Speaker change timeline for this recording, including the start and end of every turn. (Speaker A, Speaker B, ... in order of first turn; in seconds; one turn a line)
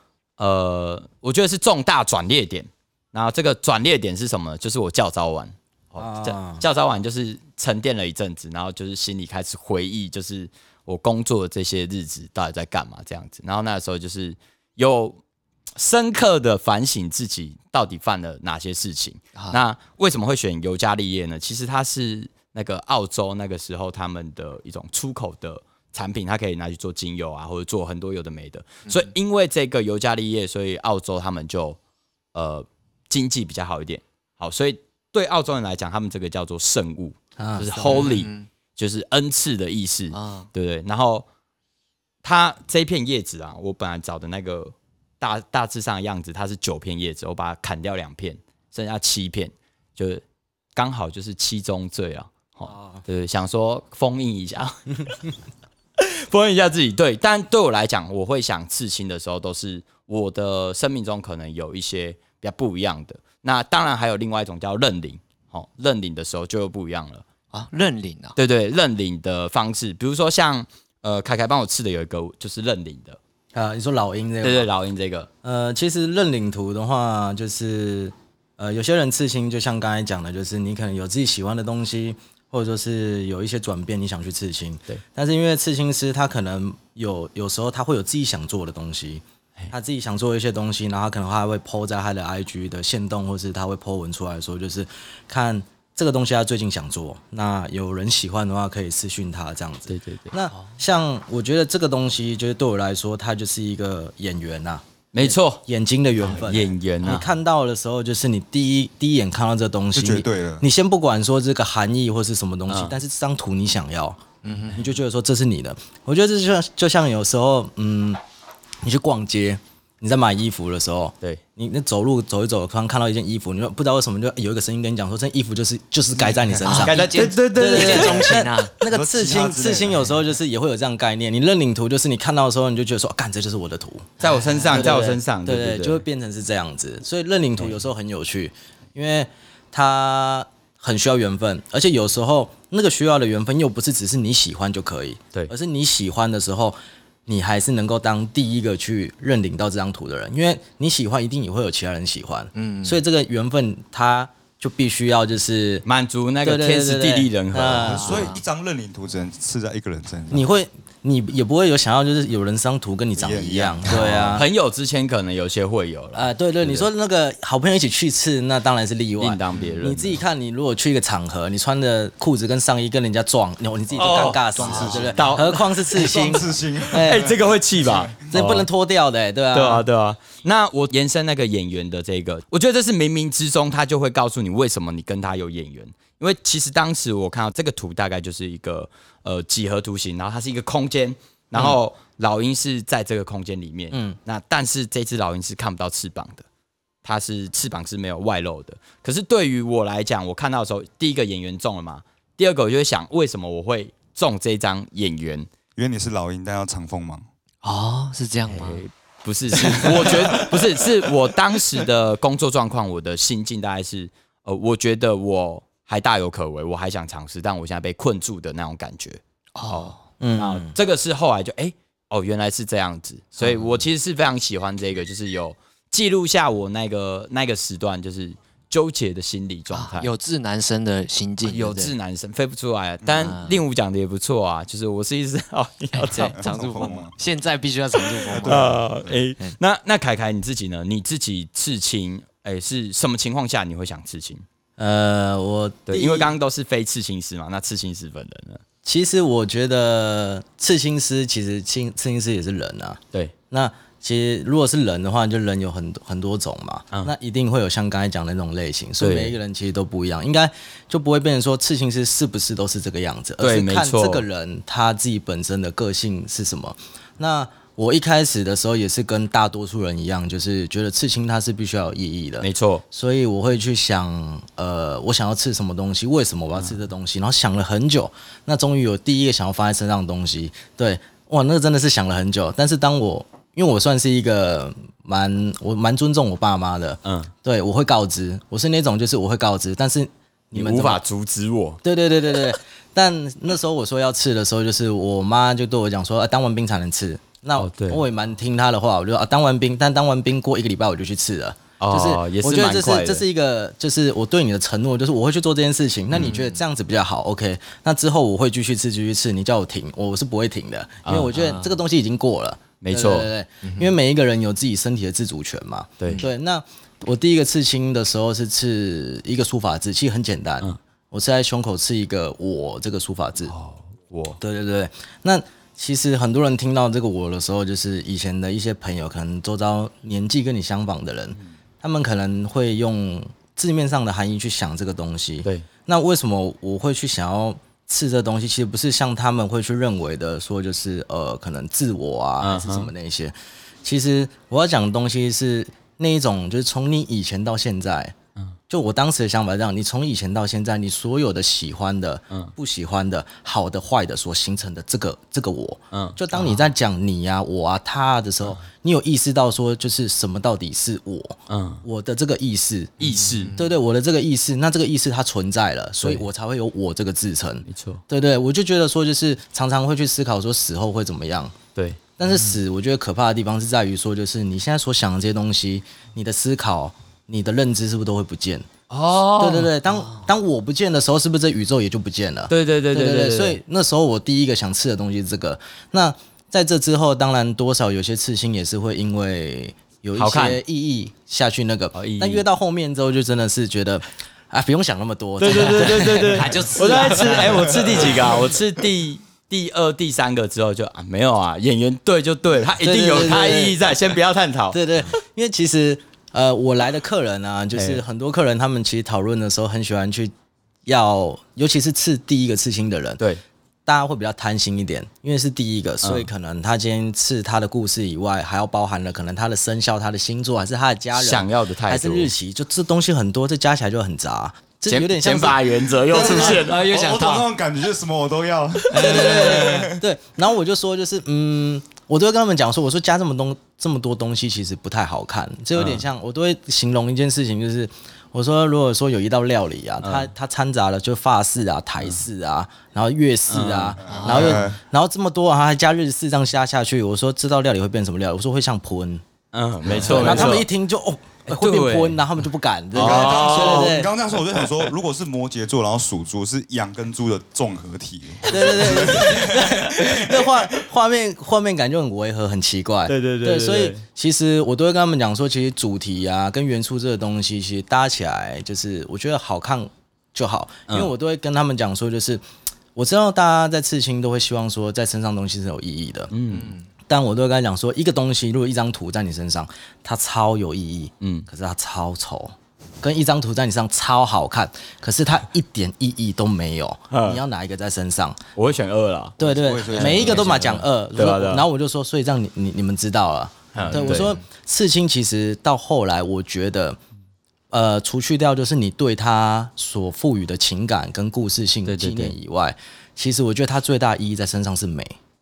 Speaker A: 0.4-15.2
Speaker B: 6.0-6.6
Speaker A: 15.8-31.8
Speaker A: 32.3-41.2
Speaker B: 37.4-38.0
Speaker C: 37.8-38.5
Speaker C: 40.1-40.5
Speaker A: 42.2-50.2
Speaker A: 50.8-55.2
Speaker B: 52.7-53.0
Speaker A: 56.0-67.2
Speaker C: 67.5-68.4
Speaker A: 68.4-73.2
Speaker B: 73.5-74.7
Speaker A: 74.4-75.3
Speaker B: 75.4-114.2
Speaker A: 99.9-100.3
Speaker A: 105.1-105.6
Speaker A: 106.2-107.3
Speaker D: 109.9-110.7
Speaker A: 112.7-113.0
Speaker C: 114.4-114.9
Speaker B: 114.8-118.2
Speaker B: 118.8-134.1
Speaker C: 126.6-128.8
Speaker A: 126.7-128.4
Speaker D: 128.9-130.1
Speaker A: 134.2-136.0
Speaker C: 134.2-134.9
Speaker B: 134.7-155.8
Speaker C: 152.5-153.0
Speaker A: 155.8-158.2
Speaker B: 156.4-158.3
Speaker D: 157.8-160.5
Speaker B: 160.3-164.5
Speaker D: 163.2-164.3
Speaker A: 163.9-166.9
Speaker B: 166.1-177.3
Speaker A: 169.2-170.2
Speaker A: 174.0-175.6
Speaker C: 174.5-175.1
Speaker D: 174.6-175.3
Speaker D: 175.9-178.2
Speaker A: 177.0-178.7
Speaker B: 178.3-179.9
Speaker A: 179.5-196.5
Speaker B: 193.9-194.2
Speaker A: 197.0-205.5
Speaker D: 205.8-207.2
Speaker C: 207.6-208.8
Speaker A: 208.5-230.1
Speaker C: 209.5-210.6
Speaker C: 219.5-220.0
Speaker B: 220.2-220.8
Speaker C: 223.4-223.8
Speaker C: 229.7-231.9
Speaker A: 231.4-236.4
Speaker C: 233.1-233.6
Speaker C: 235.9-238.8
Speaker D: 236.4-237.1
Speaker D: 238.3-239.2
Speaker A: 238.4-244.4
Speaker B: 244.8-246.3
Speaker A: 245.9-248.6
Speaker B: 248.8-291.0
Speaker A: 259.0-259.4
Speaker A: 263.4-264.2
Speaker A: 272.4-272.8
Speaker A: 287.0-287.3
Speaker A: 290.5-291.8
Speaker B: 291.8-323.5
Speaker A: 297.6-298.0
Speaker A: 301.8-303.2
Speaker A: 306.1-306.4
Speaker C: 306.2-306.6
Speaker A: 311.0-311.3
Speaker C: 311.3-311.8
Speaker A: 312.8-313.3
Speaker C: 313.6-313.9
Speaker A: 316.0-316.2
Speaker A: 323.5-324.4
Speaker B: 324.4-348.1
Speaker A: 342.4-342.9
Speaker B: 348.7-363.0
Speaker A: 355.9-356.2
Speaker C: 356.3-356.7
Speaker A: 361.5-361.8
Speaker A: 363.0-363.5
Speaker C: 363.1-363.8
Speaker B: 363.6-371.5
Speaker A: 366.0-366.3
Speaker A: 367.6-368.0
Speaker B: 372.2-378.6
Speaker C: 372.3-372.5
Speaker A: 378.9-379.7
Speaker B: 379.4-398.1
Speaker A: 382.5-383.6
Speaker A: 390.1-390.6
Speaker A: 391.9-392.4
Speaker A: 395.4-404.8
Speaker C: 395.7-398.1
Speaker B: 402.8-403.9
Speaker B: 404.7-410.3
Speaker A: 407.7-408.0
Speaker B: 410.9-413.2
Speaker B: 413.9-426.6
Speaker A: 416.0-416.3
Speaker A: 421.1-422.3
Speaker A: 424.9-426.8
Speaker C: 426.1-427.5
Speaker D: 426.2-430.0
Speaker C: 428.9-429.9
Speaker B: 429.0-449.2
Speaker A: 435.8-436.1
Speaker A: 440.0-440.3
Speaker A: 443.5-444.7
Speaker D: 444.1-444.8
Speaker C: 444.1-444.6
Speaker A: 449.5-450.7
Speaker B: 449.9-454.1
Speaker D: 450.2-450.6
Speaker A: 451.5-452.2
Speaker A: 452.9-454.0
Speaker D: 453.0-460.6
Speaker B: 458.5-472.4
Speaker A: 463.1-464.0
Speaker B: 472.9-476.3
Speaker A: 476.3-476.7
Speaker C: 476.5-476.9
Speaker B: 477.1-488.4
Speaker A: 481.2-481.5
Speaker A: 487.1-487.4
Speaker A: 488.6-489.4
Speaker B: 489.4-497.0
Speaker D: 489.4-490.6
Speaker A: 490.0-491.6
Speaker C: 490.0-490.7
Speaker A: 493.7-494.4
Speaker C: 493.9-494.4
Speaker B: 497.7-505.2
Speaker A: 501.9-502.4